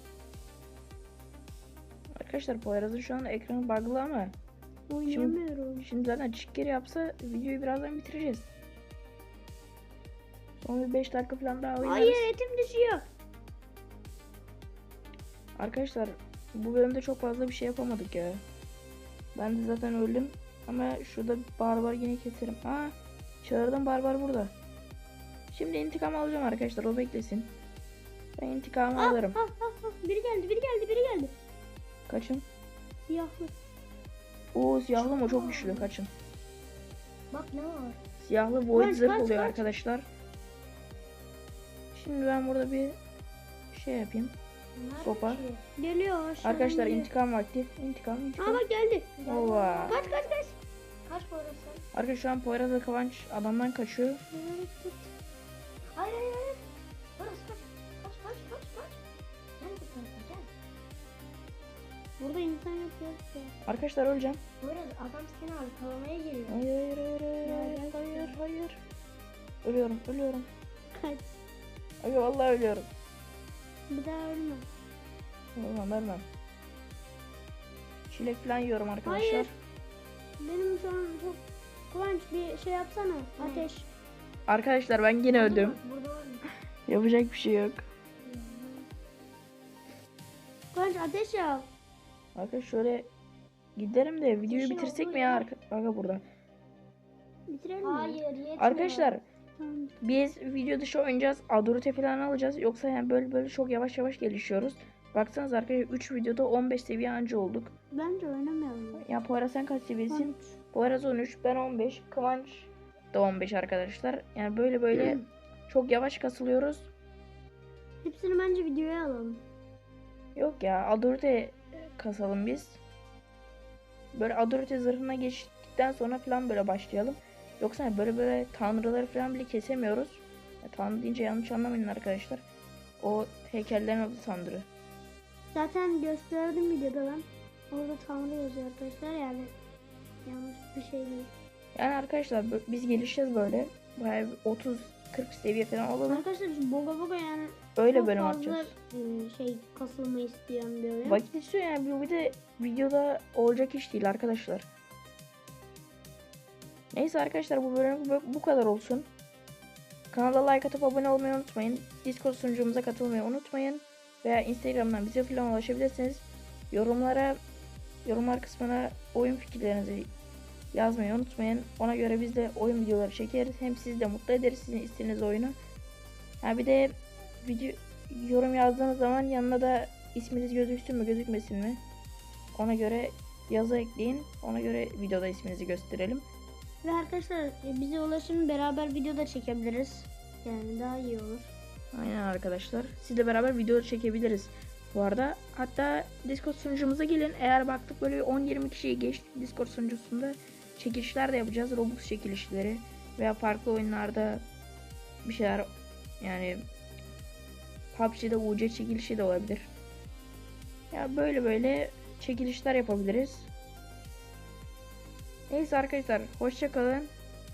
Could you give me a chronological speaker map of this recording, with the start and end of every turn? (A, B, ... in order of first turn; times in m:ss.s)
0:02.2-0:04.4 A
0:04.9-0:05.9 B
0:05.1-0:08.5 A
0:10.6-0:12.3 A
0:11.8-0:13.0 B
0:15.6-0:18.4 A
0:19.4-0:24.5 A
0:25.5-0:27.6 A
0:28.4-0:29.4 A
0:29.0-0:31.4 B
0:32.1-0:32.4 A
0:33.1-0:33.5 B
0:34.5-0:36.1 A
0:35.0-0:35.9 C
0:37.3-0:38.0 C
0:38.2-0:40.1 A
0:38.7-0:39.7 B
0:41.9-0:43.0 A
0:43.7-0:44.4 A
0:44.8-0:45.6 C
0:45.0-0:45.4 A
0:45.8-0:47.1 B
0:46.4-0:48.6 A
0:48.4-0:50.3 B
0:49.2-0:51.8 C
0:49.2-0:50.0 A
0:51.9-0:54.2 A
0:54.3-0:55.1 B
0:56.0-0:56.6 C
0:57.2-0:59.0 C
0:59.6-1:00.5 C
1:02.2-1:03.6 B
1:03.6-1:04.4 A
1:04.6-1:06.6 C
1:06.5-1:08.8 A
1:07.4-1:08.4 B
1:09.6-1:10.5 A
1:10.9-1:11.3 B
1:12.0-1:12.9 A
1:13.9-1:14.7 B
1:15.6-1:16.2 A
1:18.1-1:19.5 A
1:19.0-1:19.5 B
1:20.4-1:23.9 B
1:23.4-1:23.7 C
1:24.5-1:25.8 A
1:25.3-1:26.4 C
1:26.9-1:27.9 A
1:28.2-1:28.9 C
1:30.7-1:31.7 B
1:32.4-1:33.1 A
1:33.8-1:36.2 A
1:34.4-1:35.5 B
1:37.5-1:38.2 B
1:37.8-1:39.2 C
1:38.6-1:39.2 A
1:39.6-1:40.0 B
1:40.0-1:47.7 A
1:47.9-1:49.0 B
1:48.9-1:56.9 A
1:50.1-1:50.6 B
1:58.0-1:59.4 B
2:00.4-2:02.8 A
2:04.1-2:12.4 A
2:13.0-2:14.7 A
2:15.5-2:19.5 B
2:20.2-2:21.3 B
2:21.7-2:26.2 A
2:26.1-2:31.2 B
2:27.8-2:28.7 A
2:31.0-2:34.7 A
2:36.9-2:39.1 A
2:40.1-2:47.4 A
2:48.0-2:50.1 A
2:50.7-2:55.6 A
2:56.4-3:01.8 A
3:02.5-3:06.2 A
3:06.8-3:11.5 B
3:11.9-3:24.4 A
3:25.2-3:26.6 A
3:27.9-3:29.7 A
3:30.9-3:33.5 A
3:35.5-3:37.1 A